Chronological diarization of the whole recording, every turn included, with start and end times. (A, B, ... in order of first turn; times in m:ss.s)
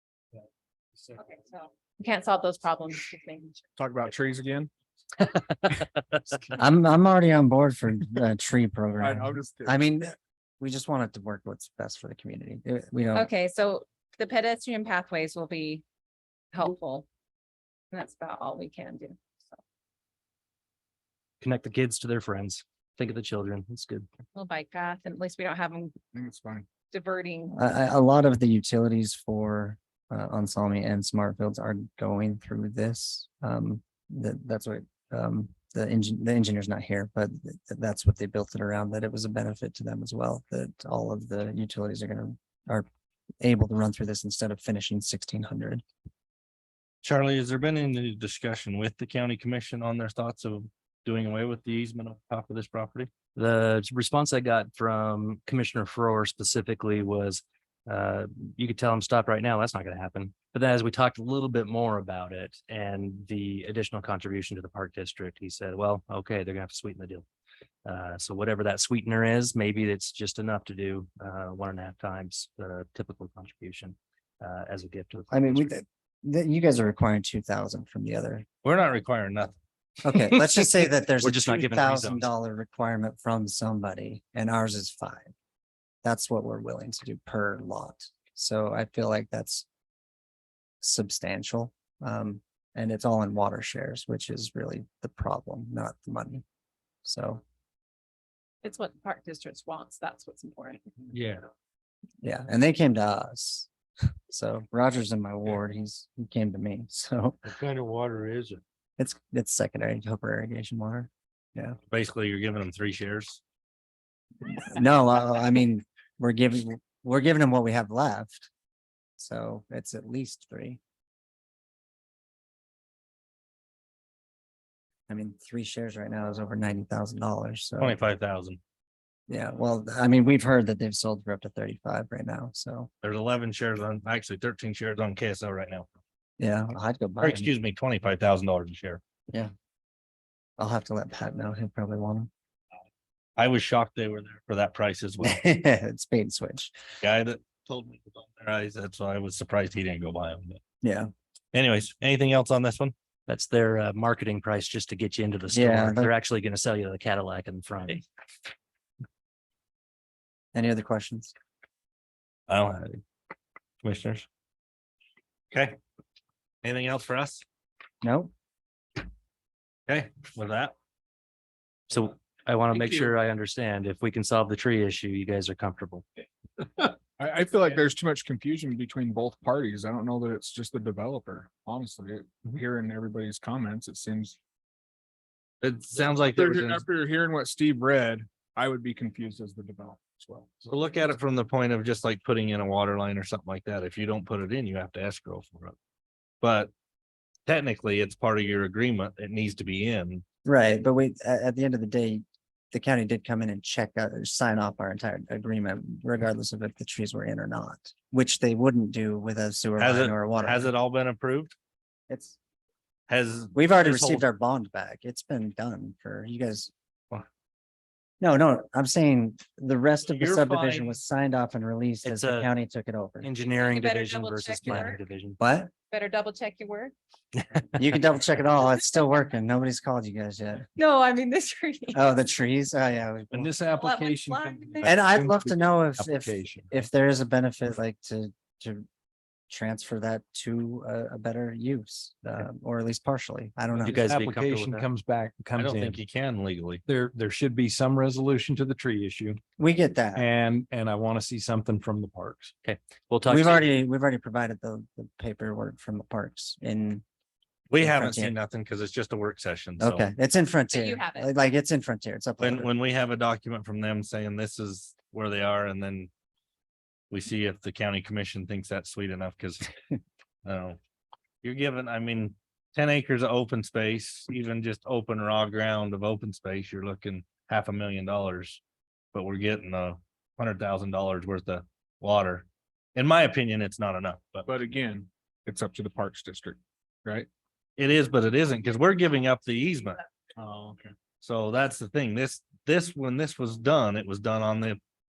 0:01.1-0:03.6 A
0:03.8-0:04.7 B
0:05.4-0:05.8 C
0:06.5-0:13.3 D
0:09.0-0:09.8 B
0:13.1-0:15.8 A
0:16.5-0:17.1 A
0:17.9-0:19.6 A
0:21.4-0:24.1 C
0:24.3-0:26.0 A
0:26.1-0:26.6 B
0:26.9-0:27.6 A
0:27.5-0:42.8 D
0:43.4-0:45.8 D
0:47.0-0:53.1 E
0:53.3-1:07.2 C
1:07.8-1:15.7 C
1:15.3-1:18.4 D
1:18.6-1:19.6 E
1:20.0-1:25.3 D
1:21.2-1:22.3 C
1:26.0-1:29.6 D
1:30.8-1:36.4 D
1:37.0-1:37.4 D
1:38.6-1:40.9 A
1:41.1-1:41.4 E
1:42.2-1:43.7 D
1:44.3-1:47.4 D
1:47.4-1:48.6 E
1:49.0-1:51.8 D
1:51.9-1:53.4 E
1:54.6-1:58.5 D
1:59.2-2:00.8 D
2:05.1-2:08.0 D
2:07.8-2:08.6 E
2:09.3-2:12.9 D
2:13.0-2:15.9 E
2:16.4-2:17.5 D
2:17.2-2:19.0 E
2:20.6-2:22.3 D
2:23.4-2:25.4 E
2:25.2-2:26.7 D
2:27.0-2:30.6 E
2:30.8-2:31.1 D
2:31.5-2:32.9 E
2:33.3-2:38.0 C
2:35.5-2:36.1 D
2:40.5-2:41.3 D
2:42.5-2:43.0 E
2:43.8-2:44.2 E
2:45.5-2:45.8 E
2:46.6-2:47.4 E
2:48.0-2:48.3 D
2:49.9-2:50.7 E
2:51.9-2:56.0 C
2:57.2-3:04.4 B
3:05.6-3:06.8 E
3:06.2-3:10.6 B
3:10.6-3:15.8 E
3:16.4-3:16.7 E
3:17.4-3:20.2 E
3:20.4-3:30.7 D
3:29.8-3:31.5 E
3:32.1-3:32.4 D
3:33.1-3:34.2 E
3:33.5-3:36.7 D
3:38.2-3:43.3 D
3:40.1-3:41.0 E
3:42.0-3:42.5 C
3:43.2-3:45.4 C
3:43.5-3:45.0 A
3:44.6-3:45.7 D
3:45.9-3:46.9 A
3:47.8-3:50.7 D
3:50.8-3:52.0 A
3:51.9-3:53.5 D
3:53.3-3:56.8 F
3:53.7-3:55.0 A
3:54.8-3:58.9 D
3:59.5-4:04.1 D
4:03.8-4:06.0 F
4:03.8-4:04.9 C
4:05.6-4:06.8 E
4:06.8-4:09.4 F
4:09.6-4:10.3 D
4:10.1-4:12.5 F
4:12.6-4:13.6 C
4:13.3-4:17.0 D
4:17.7-4:20.1 E
4:17.8-4:18.3 D
4:19.8-4:22.7 D
4:20.7-4:21.3 A
4:22.4-4:26.1 E
4:27.1-4:29.7 E
4:30.4-4:30.8 E
4:31.4-4:38.6 E
4:39.1-4:44.5 E
4:44.4-4:47.3 B
4:47.8-4:50.0 E
4:50.4-4:50.9 B
4:51.2-4:54.8 E